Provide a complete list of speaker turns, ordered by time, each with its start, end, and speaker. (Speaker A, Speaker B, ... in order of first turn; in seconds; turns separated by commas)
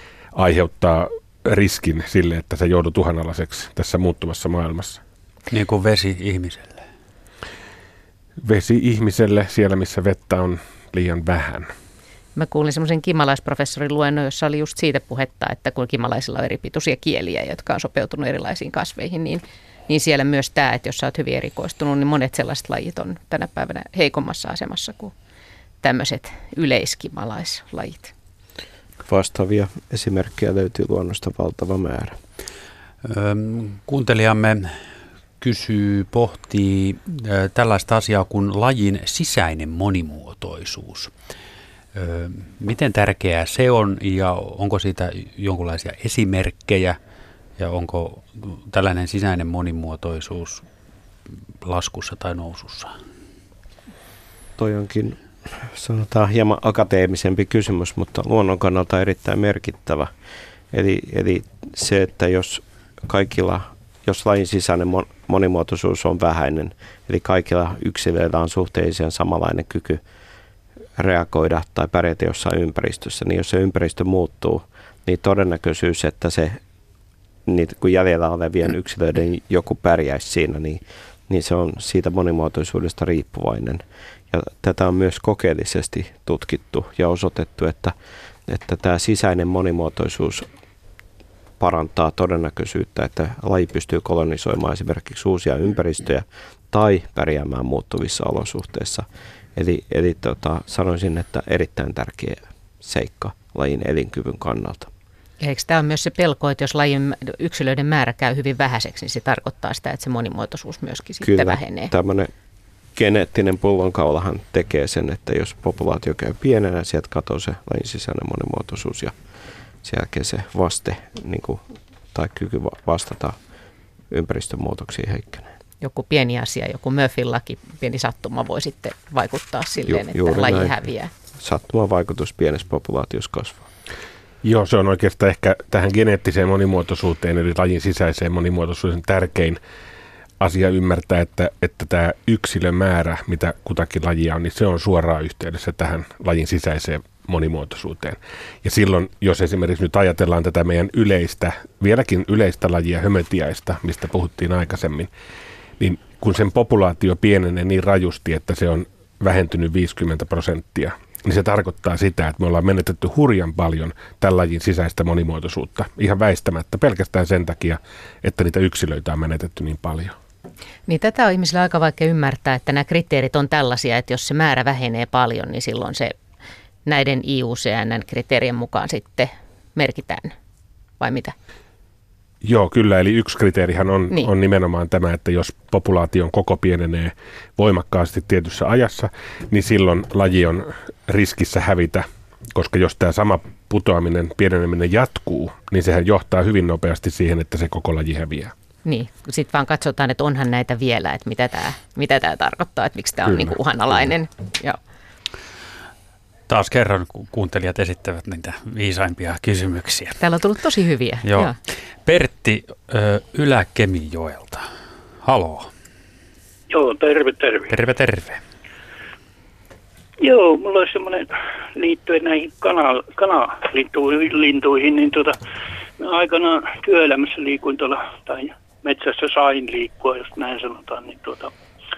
Speaker A: 0.3-5.0, Speaker B: 5.5-6.8, Speaker A: 8.4-11.7, Speaker C: 12.3-25.1, Speaker C: 25.8-28.1, Speaker D: 29.1-32.2, Speaker B: 33.0-34.8, Speaker B: 35.4-41.1, Speaker B: 42.0-47.0, Speaker B: 47.6-50.7, Speaker B: 51.6-53.0, Speaker D: 54.6-60.1, Speaker D: 60.7-70.0, Speaker D: 71.0-76.6, Speaker D: 77.5-88.0, Speaker D: 88.5-90.5, Speaker D: 91.6-104.9, Speaker C: 105.4-111.9, Speaker D: 111.2-112.3, Speaker D: 113.0-119.2, Speaker D: 119.8-123.4, Speaker D: 124.1-125.5, Speaker C: 125.8-131.1, Speaker D: 129.8-130.8, Speaker D: 131.4-133.7, Speaker A: 134.4-139.6, Speaker A: 140.4-155.1, Speaker A: 155.8-170.2, Speaker C: 170.9-176.2, Speaker C: 176.9-180.3, Speaker C: 181.0-181.3, Speaker A: 182.4-198.5, Speaker C: 198.8-204.8, Speaker B: 206.5-210.2, Speaker C: 210.2-211.6, Speaker B: 211.2-211.5, Speaker B: 212.1-214.7, Speaker B: 215.2-215.7, Speaker E: 216.7-217.8, Speaker B: 217.7-218.4, Speaker E: 220.2-225.4, Speaker E: 226.0-231.5